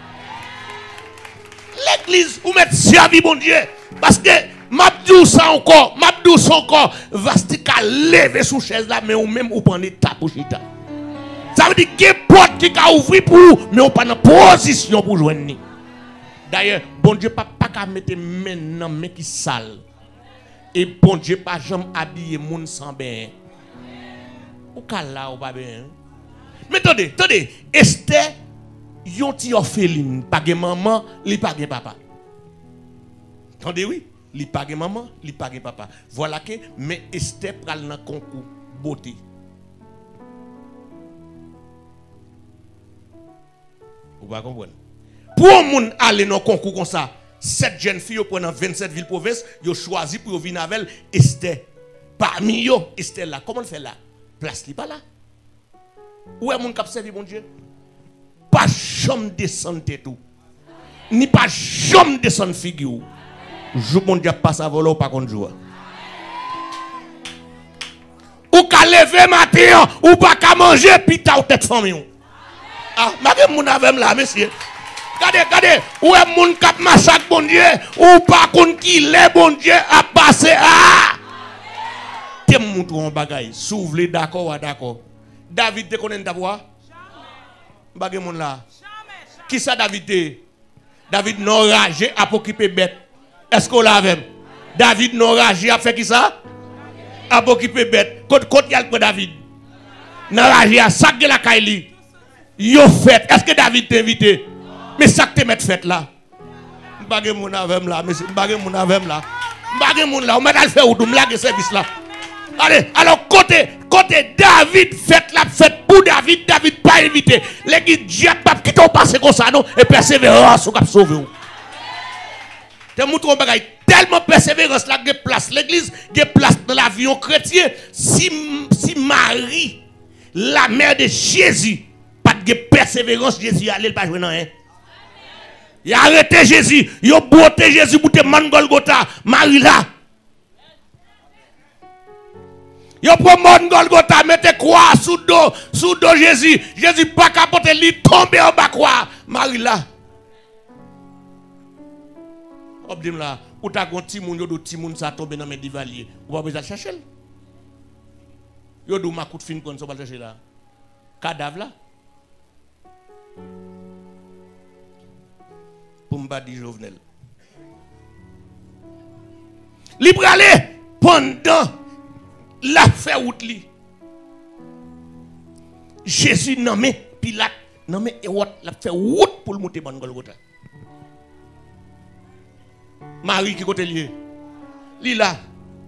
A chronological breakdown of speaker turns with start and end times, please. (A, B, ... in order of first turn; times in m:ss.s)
0:01.7-0:10.6 A
0:11.5-0:15.6 A
0:16.5-0:19.8 A
0:20.7-0:23.3 A
0:24.7-0:26.0 A
0:26.7-0:28.4 A
0:29.0-0:32.0 A
0:33.6-0:39.2 A
0:44.2-0:44.8 A
0:45.4-0:51.6 A
0:52.2-0:55.0 A
0:56.4-0:57.5 A
0:58.5-1:00.2 A
1:01.1-1:03.1 A
1:03.7-1:05.6 A
1:08.5-1:12.1 A
1:13.0-1:14.5 A
1:15.2-1:21.2 A
1:22.5-1:26.6 A
1:28.0-1:28.6 A
1:29.5-1:30.4 A
1:31.1-1:33.0 A
1:33.5-1:36.3 A
1:37.3-1:39.4 A
1:40.3-1:41.9 A
1:42.6-1:44.5 A
1:45.0-1:46.1 A
1:47.0-1:51.9 A
1:52.6-2:01.3 A
2:03.0-2:14.5 A
2:15.8-2:19.9 A
2:23.0-2:29.9 A
2:32.8-2:37.0 A
2:38.9-2:40.4 A
2:41.2-2:41.7 A
2:46.1-2:47.0 A
2:50.0-2:51.7 A
2:52.6-2:53.7 A
2:56.0-3:00.4 A
3:03.2-3:04.1 A
3:05.0-3:05.4 A